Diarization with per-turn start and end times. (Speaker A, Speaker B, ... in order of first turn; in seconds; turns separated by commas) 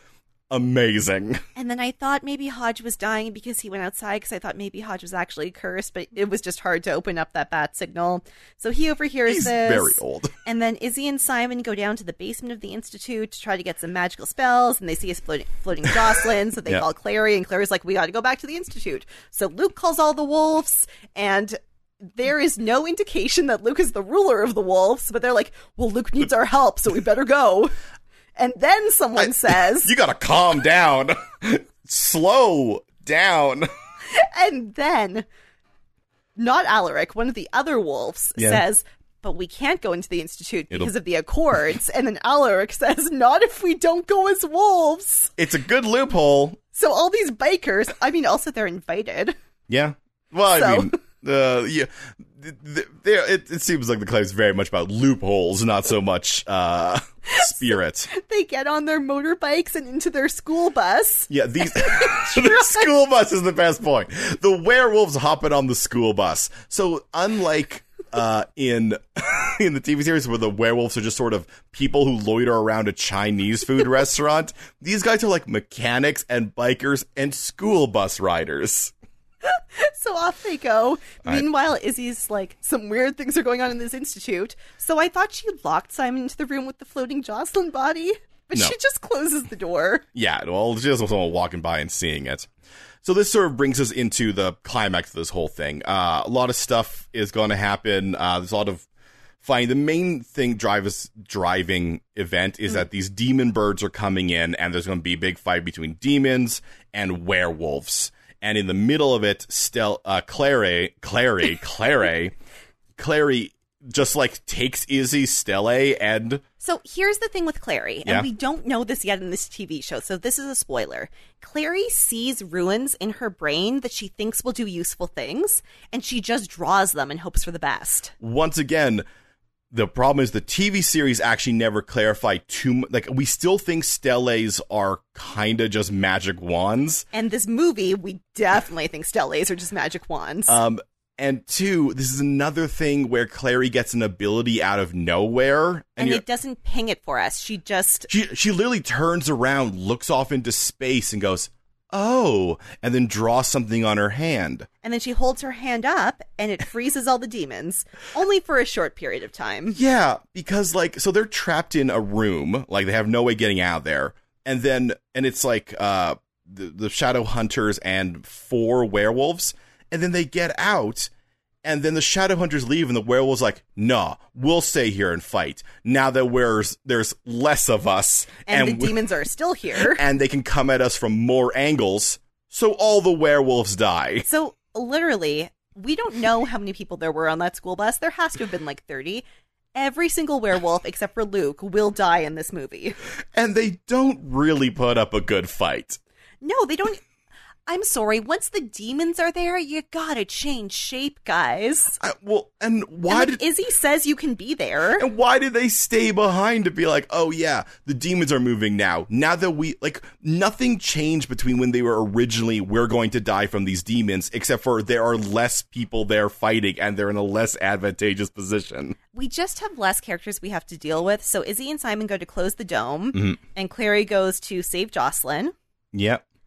Speaker A: 0.5-1.4, Speaker B: 1.6-21.6, Speaker A: 9.3-10.3, Speaker B: 22.1-27.7, Speaker B: 28.4-29.9, Speaker A: 29.2-33.7, Speaker B: 34.1-35.3, Speaker B: 36.4-45.3, Speaker A: 38.4-38.6, Speaker A: 45.4-46.6, Speaker B: 46.7-49.4, Speaker A: 49.7-58.1, Speaker B: 50.5-51.0, Speaker B: 57.3-62.9, Speaker A: 61.3-78.9, Speaker B: 79.4-90.0, Speaker A: 90.1-92.5, Speaker A: 93.0-98.9, Speaker A: 99.4-112.3, Speaker A: 113.0-116.4, Speaker B: 116.6-128.1, Speaker A: 128.2-129.0, Speaker A: 129.7-137.1, Speaker B: 137.1-140.6, Speaker A: 140.5-146.2, Speaker B: 146.0-148.1, Speaker A: 148.1-154.7, Speaker B: 154.8-159.8, Speaker A: 159.7-171.1, Speaker A: 171.7-179.0, Speaker B: 178.5-180.0, Speaker A: 179.8-184.3, Speaker B: 184.2-189.2, Speaker B: 189.8-193.0, Speaker A: 193.3-196.0, Speaker B: 196.4-197.0, Speaker B: 197.7-202.0, Speaker A: 202.0-203.4, Speaker B: 203.1-205.1, Speaker A: 205.0-219.0, Speaker B: 219.1-225.5, Speaker A: 225.9-226.2